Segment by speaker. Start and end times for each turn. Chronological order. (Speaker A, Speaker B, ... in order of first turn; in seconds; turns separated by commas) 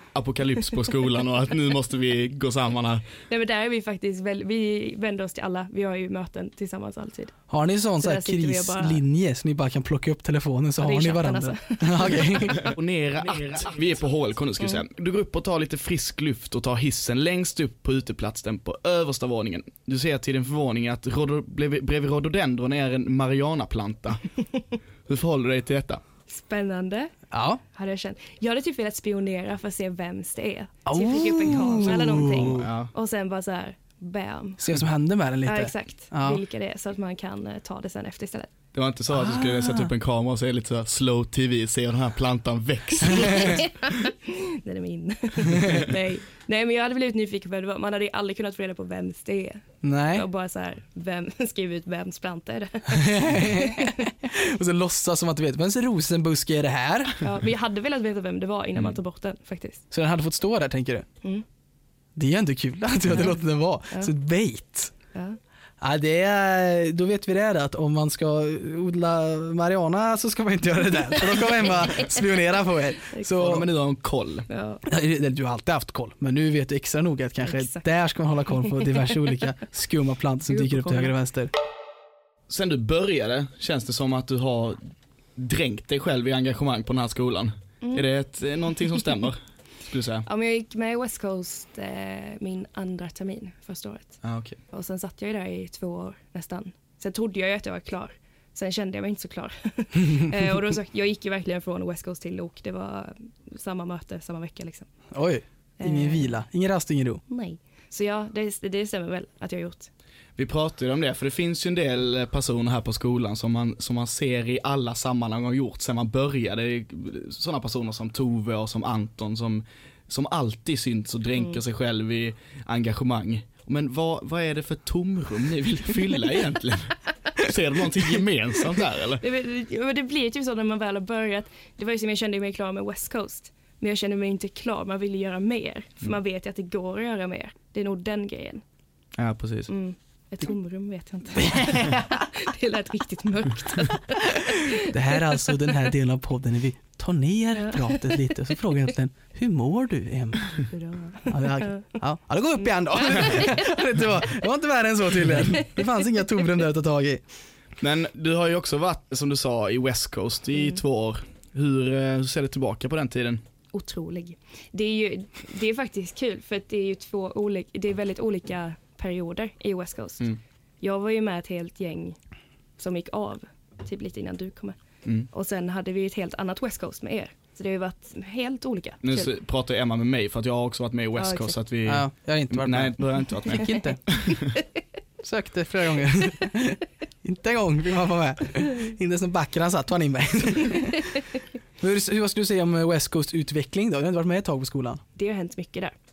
Speaker A: 0.1-3.0, Speaker B: 3.3-7.3, Speaker C: 7.5-12.7, Speaker B: 8.0-9.0, Speaker B: 10.8-12.7, Speaker A: 12.5-24.2, Speaker A: 25.1-26.0, Speaker B: 26.3-27.1, Speaker C: 27.3-27.6, Speaker B: 27.7-34.6, Speaker C: 30.9-32.7, Speaker A: 32.4-32.9, Speaker C: 34.6-36.4, Speaker B: 35.4-38.5, Speaker A: 38.7-43.8, Speaker C: 39.1-39.9, Speaker B: 43.1-54.1, Speaker C: 45.5-45.8, Speaker C: 49.8-50.2, Speaker C: 52.9-57.2, Speaker B: 57.2-59.8, Speaker C: 59.9-61.0, Speaker C: 62.1-64.9, Speaker B: 63.1-63.3, Speaker C: 65.8-73.7, Speaker A: 73.3-74.5, Speaker B: 74.5-74.8, Speaker C: 74.8-81.5, Speaker B: 77.4-77.8, Speaker B: 80.5-81.1, Speaker A: 82.5-84.8, Speaker A: 85.3-90.2, Speaker B: 90.2-104.9, Speaker A: 94.2-94.6, Speaker C: 105.1-107.2, Speaker B: 105.8-106.3, Speaker B: 107.3-109.9, Speaker A: 110.4-129.2, Speaker B: 129.2-138.6, Speaker A: 139.2-139.7, Speaker B: 139.7-145.5, Speaker C: 141.4-142.1, Speaker C: 144.8-150.6, Speaker B: 147.5-148.1, Speaker B: 150.6-151.9, Speaker C: 151.3-157.2, Speaker B: 153.0-153.6, Speaker A: 157.8-163.4, Speaker B: 163.7-170.3, Speaker B: 170.8-172.2, Speaker B: 172.8-174.8, Speaker B: 175.3-179.3, Speaker A: 179.0-184.6, Speaker B: 181.2-181.5, Speaker C: 181.8-184.0, Speaker C: 185.2-191.3, Speaker C: 191.8-195.0, Speaker B: 195.2-195.9